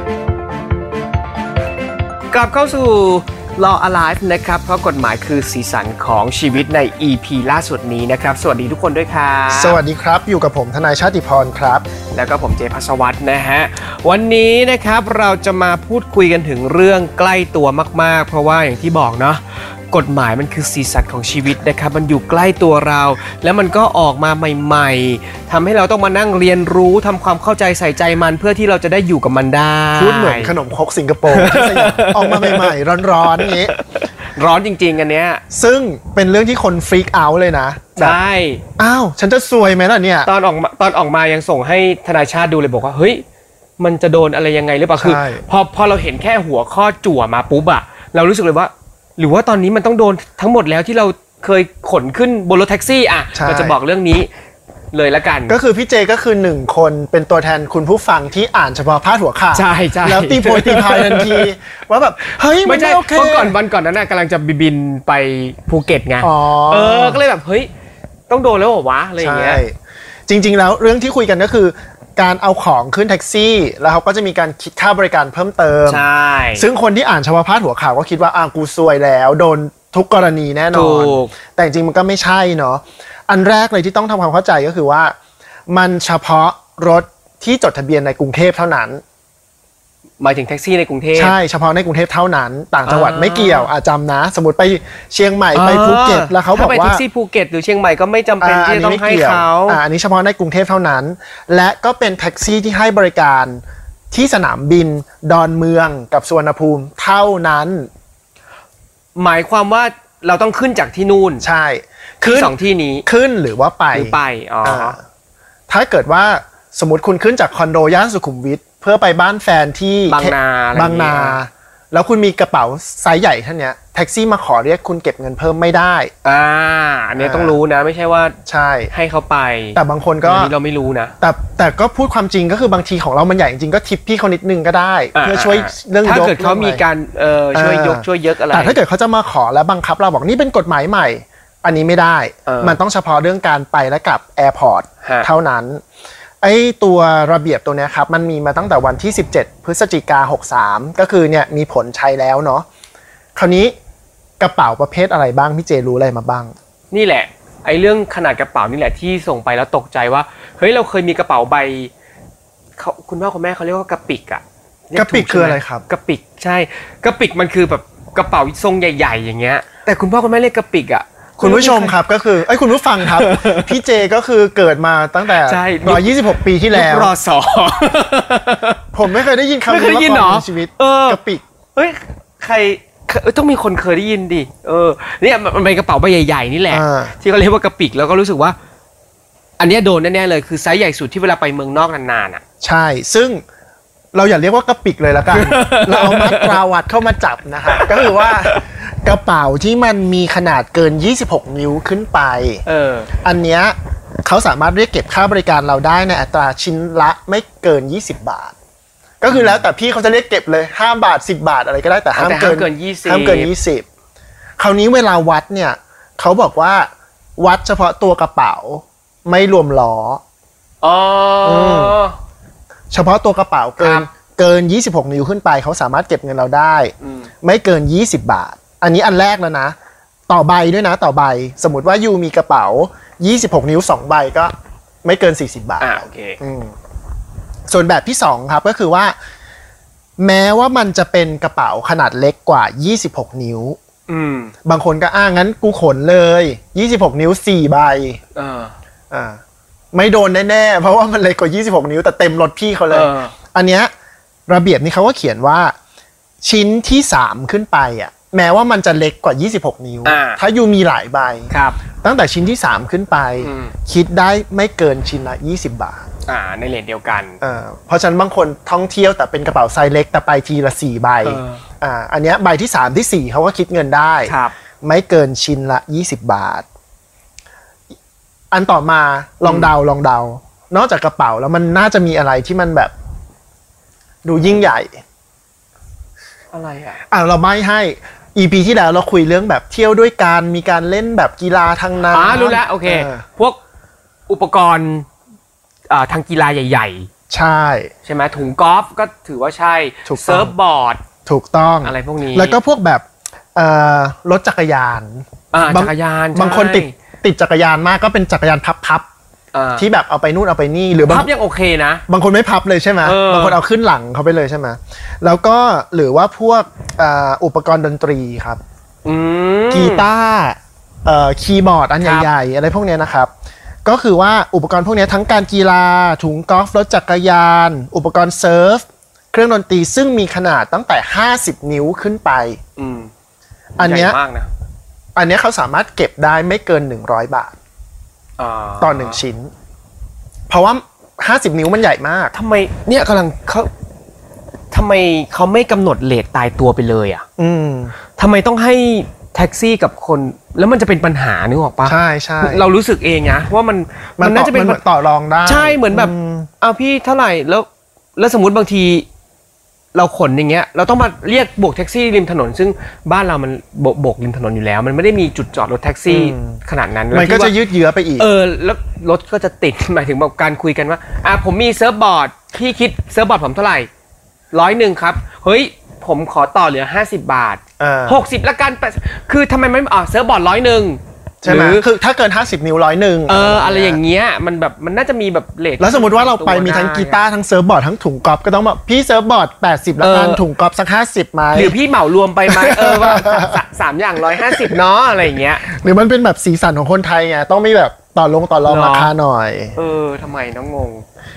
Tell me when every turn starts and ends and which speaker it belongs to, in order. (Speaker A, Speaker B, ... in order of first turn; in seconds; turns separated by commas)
Speaker A: 2.3-9.8, Speaker B: 9.5-11.9, Speaker A: 12.1-30.6, Speaker B: 29.9-33.7, Speaker A: 31.3-35.4, Speaker B: 35.5-38.2, Speaker A: 38.0-38.6, Speaker B: 38.8-40.3, Speaker A: 40.2-43.2, Speaker A: 43.8-54.3, Speaker B: 45.0-45.4, Speaker B: 53.3-53.8, Speaker A: 54.9-55.6, Speaker B: 55.5-63.6, Speaker A: 59.5-61.5, Speaker A: 62.6-67.7, Speaker B: 66.2-67.2, Speaker A: 68.3-69.6, Speaker B: 69.2-85.2, Speaker A: 75.9-76.7, Speaker A: 80.7-81.3, Speaker B: 85.7-89.0, Speaker A: 90.2-91.4, Speaker B: 91.1-97.0, Speaker A: 92.9-93.7, Speaker A: 95.5-99.8, Speaker B: 98.4-107.9, Speaker A: 109.2-111.5, Speaker B: 111.4-115.0, Speaker A: 112.2-113.0, Speaker A: 113.9-115.0, Speaker B: 115.7-126.1, Speaker A: 120.1-121.4, Speaker A: 126.2-128.4, Speaker B: 127.2-127.6, Speaker B: 128.5-128.9, Speaker A: 128.9-131.1, Speaker B: 129.8-130.5, Speaker B: 131.2-136.8, Speaker A: 135.2-138.8, Speaker B: 137.5-145.8, Speaker A: 142.5-142.8, Speaker A: 145.0-145.3, Speaker B: 146.4-152.7, Speaker B: 153.3-153.8, Speaker B: 154.4-156.5, Speaker A: 156.9-161.9, Speaker A: 162.8-172.0, Speaker B: 164.9-165.9, Speaker B: 171.4-177.1, Speaker A: 173.0-173.8, Speaker A: 175.3-178.8, Speaker B: 178.9-181.4, Speaker A: 179.7-181.2, Speaker A: 181.8-188.6, Speaker B: 186.7-187.1, Speaker A: 189.6-192.4, Speaker B: 192.6-193.4, Speaker B: 194.1-202.6, Speaker A: 195.3-196.6, Speaker A: 197.7-198.3, Speaker A: 202.7-203.1, Speaker B: 203.2-208.6, Speaker B: 209.2-213.9, Speaker A: 209.3-209.7, Speaker A: 212.1-213.5, Speaker B: 214.6-220.2, Speaker A: 220.8-222.2, Speaker B: 221.4-222.0, Speaker B: 222.9-229.8, Speaker A: 223.8-224.1, Speaker A: 227.0-227.3, Speaker B: 230.3-234.5, Speaker B: 235.0-236.8, Speaker A: 235.8-236.4, Speaker B: 237.7-239.2, Speaker B: 240.2-243.8, Speaker A: 244.1-244.5, Speaker B: 244.7-248.2, Speaker A: 248.3-248.7, Speaker B: 249.1-249.4, Speaker B: 249.9-253.9, Speaker A: 252.9-253.3, Speaker B: 254.5-255.8, Speaker B: 256.4-266.1, Speaker A: 260.1-260.4, Speaker A: 261.5-261.8, Speaker A: 263.4-263.7, Speaker A: 266.2-267.4, Speaker B: 267.4-276.7, Speaker A: 271.2-271.6, Speaker A: 274.2-274.6, Speaker B: 278.5-282.9, Speaker A: 279.4-279.7, Speaker B: 284.2-285.0, Speaker A: 286.5-287.0, Speaker B: 287.1-293.2, Speaker A: 292.1-293.6, Speaker A: 294.3-295.1, Speaker A: 295.9-297.1, Speaker B: 297.3-297.9, Speaker A: 298.1-301.0, Speaker B: 300.1-300.5, Speaker B: 301.3-309.1, Speaker A: 301.8-302.6, Speaker A: 305.5-306.9, Speaker A: 309.5-309.9, Speaker B: 309.8-311.3, Speaker A: 311.1-312.0, Speaker B: 312.1-318.6, Speaker A: 313.0-313.6, Speaker A: 319.1-320.1, Speaker B: 319.7-323.3, Speaker A: 322.0-322.3, Speaker B: 323.9-332.6, Speaker A: 332.8-333.1, Speaker B: 333.8-334.2, Speaker A: 333.8-334.5, Speaker B: 335.1-337.6, Speaker A: 338.4-339.2, Speaker B: 338.8-339.5, Speaker B: 340.5-342.4, Speaker A: 342.3-343.7, Speaker A: 344.7-347.2, Speaker B: 347.4-347.9, Speaker A: 348.2-354.8, Speaker B: 351.9-352.7, Speaker B: 354.2-356.5, Speaker A: 355.4-359.1, Speaker A: 359.9-367.6, Speaker B: 366.1-366.6, Speaker B: 367.1-368.3, Speaker A: 368.2-373.9, Speaker A: 374.5-381.9, Speaker B: 377.8-378.2, Speaker B: 381.4-384.0, Speaker A: 383.3-387.2, Speaker B: 385.8-391.8, Speaker A: 390.0-390.4, Speaker A: 391.5-395.6, Speaker B: 392.5-393.6, Speaker B: 394.2-394.8, Speaker B: 395.6-399.8, Speaker A: 398.6-399.1, Speaker A: 399.8-401.1